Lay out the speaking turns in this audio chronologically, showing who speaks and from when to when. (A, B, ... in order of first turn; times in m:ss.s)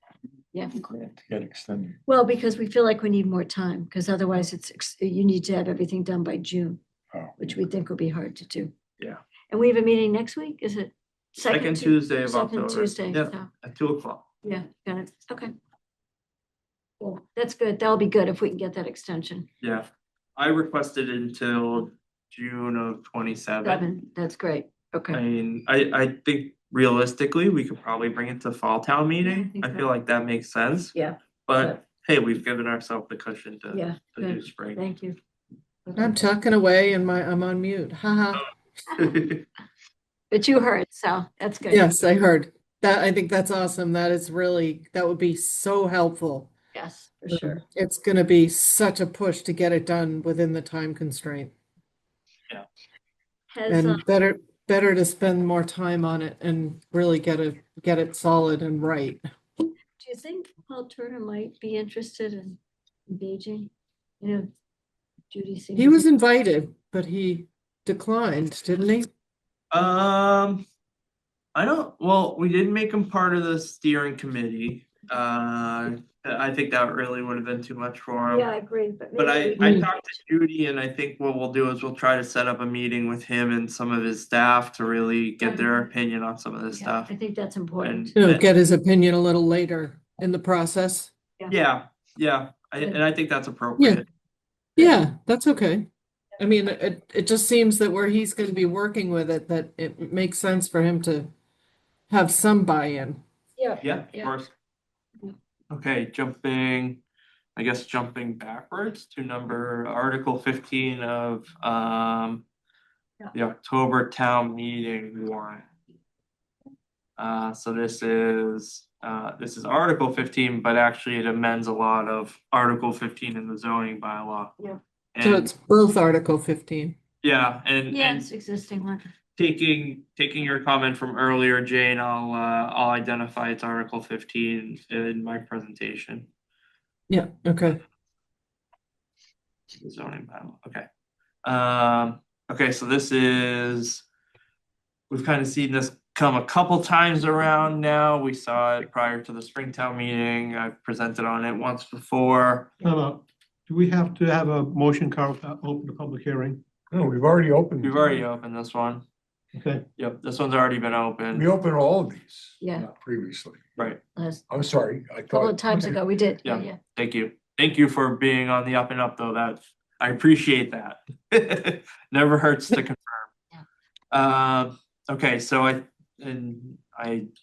0:00.5-0:00.9 A
0:01.1-0:02.0 B
0:02.1-0:06.8 A
0:07.4-0:08.7 A
0:09.5-0:13.5 A
0:11.4-0:14.3 C
0:14.4-0:15.5 A
0:17.0-0:19.4 A
0:19.6-0:23.8 C
0:23.6-0:25.2 A
0:25.1-0:31.0 C
0:29.2-0:29.9 A
0:30.9-0:31.8 A
0:31.5-0:34.8 C
0:33.7-0:35.2 A
0:35.8-0:36.2 A
0:36.0-0:38.4 D
0:39.0-0:39.4 C
0:40.3-0:42.0 A
0:41.7-0:46.5 D
0:46.7-0:47.6 A
0:47.3-0:51.5 D
0:53.5-0:54.0 A
0:53.7-0:59.2 D
1:00.0-1:02.6 A
1:03.1-1:04.5 A
1:05.3-1:06.0 A
1:05.7-1:09.1 D
1:09.7-1:10.7 C
1:11.6-1:18.5 C
1:18.3-1:19.9 A
1:19.2-1:27.1 C
1:25.4-1:25.9 A
1:26.7-1:28.1 A
1:27.8-1:28.4 C
1:28.2-1:31.1 D
1:31.5-1:34.0 C
1:34.8-1:35.0 A
1:34.8-1:35.9 D
1:36.4-1:41.3 D
1:42.1-1:43.2 D
1:43.6-1:44.4 A
1:43.8-1:44.5 C
1:45.7-1:47.0 C
1:47.6-1:52.4 C
1:53.3-1:55.7 C
1:57.2-2:04.5 C
2:05.1-2:05.5 C
2:05.2-2:07.0 D
2:07.2-2:08.2 C
2:07.9-2:09.0 A
2:09.4-2:16.3 C
2:17.1-2:17.8 D
2:19.8-2:20.9 C
2:21.4-2:24.0 C
2:25.1-2:32.7 C
2:32.8-2:36.6 E
2:36.9-2:38.1 B
2:37.8-2:39.0 C
2:39.5-2:39.9 E
2:40.0-2:41.5 C
2:41.3-2:43.9 B
2:42.6-2:42.9 A
2:44.2-2:44.4 A
2:44.5-2:46.0 B
2:45.3-2:46.8 A
2:46.4-2:53.3 C
2:54.1-2:57.3 C